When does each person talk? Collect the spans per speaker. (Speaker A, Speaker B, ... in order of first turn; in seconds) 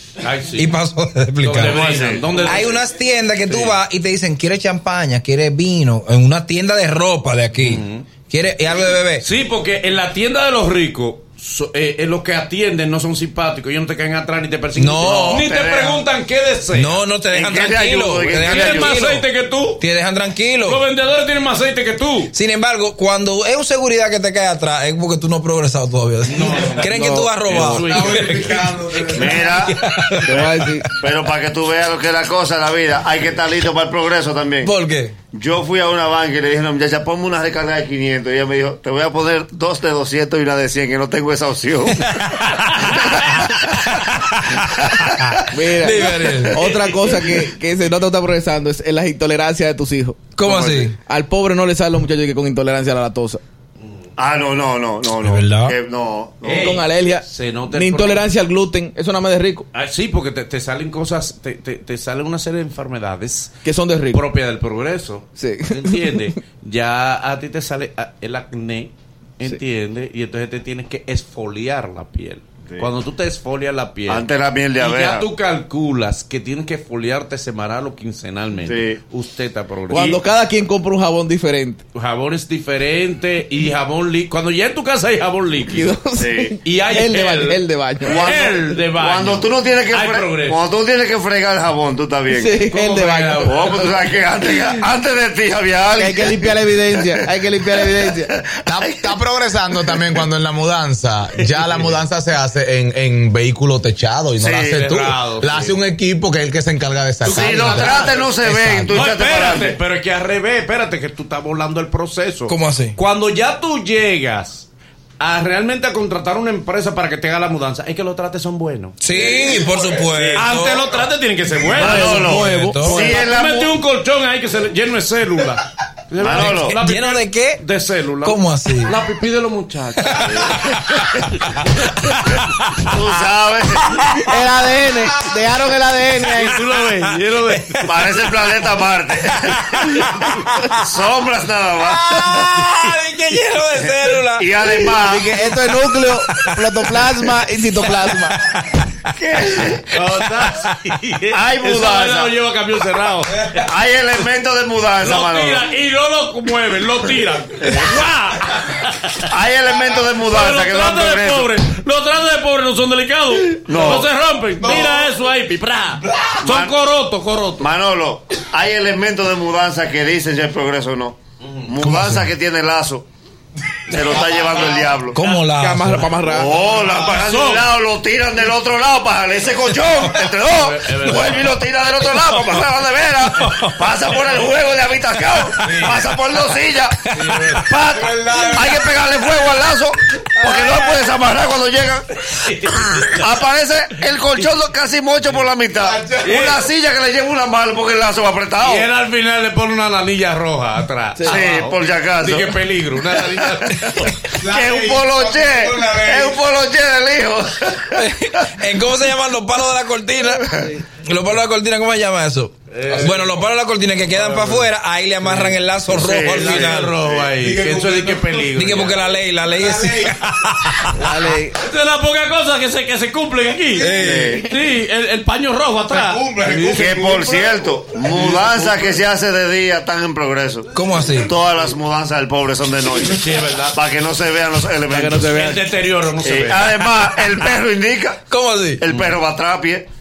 Speaker A: 0.2-0.7, 1.4-2.8, 3.5-3.8, 7.6-8.1, 9.2-17.0, 18.3-19.8, 20.6-22.3, 26.3-30.3, 56.4-58.3, 59.7-63.6, 64.1-74.3, 74.8-80.2, 82.0-85.9, 86.7-90.6, 92.7-93.9, 101.7-101.9, 104.7-105.8, 107.3-108.2, 108.9-114.7, 115.2-119.5, 120.3-132.9, 136.3-138.1, 149.9-153.7, 155.0-159.3, 160.2-167.7, 171.4-171.7, 176.9-177.7, 180.4-181.6, 182.2-182.6, 183.4-183.7, 185.6-186.0, 187.1-188.2, 192.4-193.2, 196.2-196.6, 198.6-204.2, 212.7-213.4, 214.1-214.7, 215.2-219.0, 220.4-220.8, 221.6-227.1, 228.1-228.5, 233.1-233.8, 235.2-236.9, 238.9-239.1
Speaker B: 0.6-9.3, 14.8-15.5, 16.7-20.8, 22.3-28.6, 29.7-30.3, 34.6-35.2, 42.1-42.9, 44.0-46.7, 50.4-51.0, 55.2-55.8, 108.5-108.8, 112.5-113.0, 119.0-120.9, 122.0-123.1, 126.3-127.6, 128.2-129.0, 130.1-130.4, 141.8-144.7, 146.3-146.8, 171.8-172.3, 175.1-176.2, 207.9-217.0, 218.5-220.9, 223.8-224.4, 230.7-231.3, 238.3-238.8
Speaker C: 1.6-2.5, 15.0-16.0, 17.3-19.0, 29.1-29.8, 30.9-34.7, 35.3-43.8, 50.4-50.9, 54.2-56.8, 74.1-75.3, 78.7-79.0, 86.2-86.6, 88.0-92.5, 93.5-96.5, 98.6-99.2, 104.4-104.8, 107.3-109.8, 119.1-119.5, 120.1-120.4, 121.7-123.7, 126.2-126.8, 130.3-130.6, 132.9-134.0, 137.9-142.5, 144.3-145.4, 149.1-149.9, 151.3-152.3, 153.6-155.7, 157.6-157.9, 159.3-161.5, 163.7-164.1, 166.4-166.8, 167.6-173.1, 173.9-175.2, 176.2-192.2, 192.9-198.9, 201.3-202.6, 203.6-208.0, 216.0-217.3, 223.9-224.5, 226.7-235.3, 236.2-238.2, 238.8-239.9
Speaker D: 26.8-27.3, 30.3-30.9, 45.5-50.4, 51.0-53.4, 56.5-59.7, 63.6-64.2, 65.4-66.3, 79.9-81.8, 85.7-88.2, 92.3-93.9, 96.0-98.3, 121.8-123.2, 134.2-136.6, 145.0-148.5, 175.6-176.6, 221.0-221.6, 234.9-235.6
Speaker E: 27.9-29.4, 98.7-108.1, 164.8-165.1, 188.0-188.8, 195.8-196.2, 204.3-206.4, 217.3-218.5, 219.5-220.2, 225.9-228.9